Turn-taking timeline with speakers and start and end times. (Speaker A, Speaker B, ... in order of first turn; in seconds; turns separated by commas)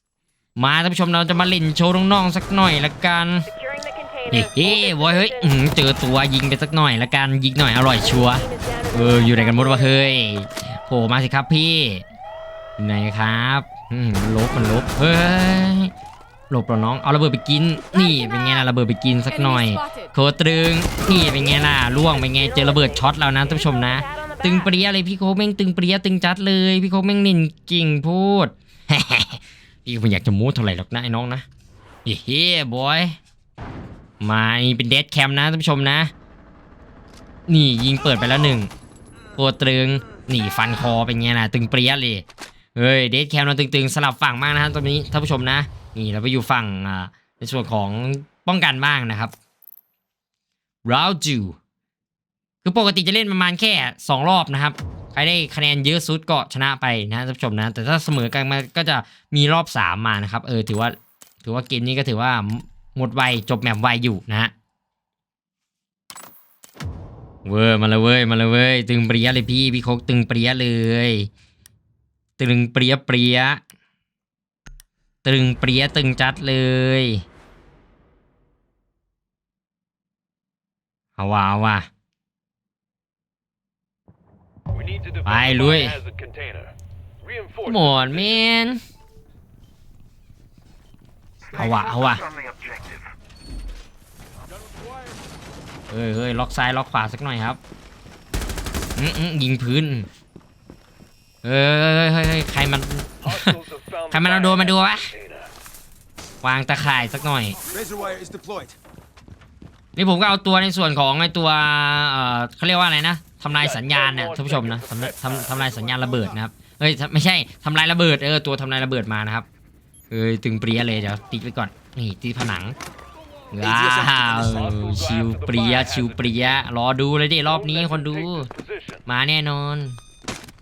Speaker A: 0.6-3.5, Speaker B: 3.5-5.5, Speaker A: 4.3-12.0, Speaker B: 8.0-9.9, Speaker A: 12.8-15.9, Speaker A: 16.5-31.4, Speaker B: 18.0-18.4, Speaker B: 19.4-20.1, Speaker B: 21.1-24.7, Speaker A: 32.0-33.2, Speaker A: 34.2-36.1, Speaker A: 37.5-38.7, Speaker A: 39.4-42.2, Speaker A: 42.8-49.3, Speaker A: 50.8-51.5, Speaker A: 52.6-64.5, Speaker A: 67.4-71.3, Speaker A: 72.4-73.6, Speaker A: 75.2-77.2, Speaker A: 81.2-81.9, Speaker C: 84.7-88.4, Speaker A: 85.2-86.0, Speaker A: 87.6-88.8, Speaker A: 91.5-92.2, Speaker D: 92.5-92.9, Speaker A: 95.9-97.6, Speaker A: 99.0-100.1, Speaker A: 101.4-103.6, Speaker C: 103.2-105.5, Speaker A: 104.1-105.1, Speaker A: 106.4-107.6, Speaker D: 107.6-108.8, Speaker A: 110.0-119.5, Speaker C: 113.5-116.1, Speaker A: 120.1-122.7, Speaker A: 123.5-128.5, Speaker D: 123.6-124.7, Speaker C: 124.5-126.4, Speaker C: 127.5-129.0, Speaker A: 129.1-130.0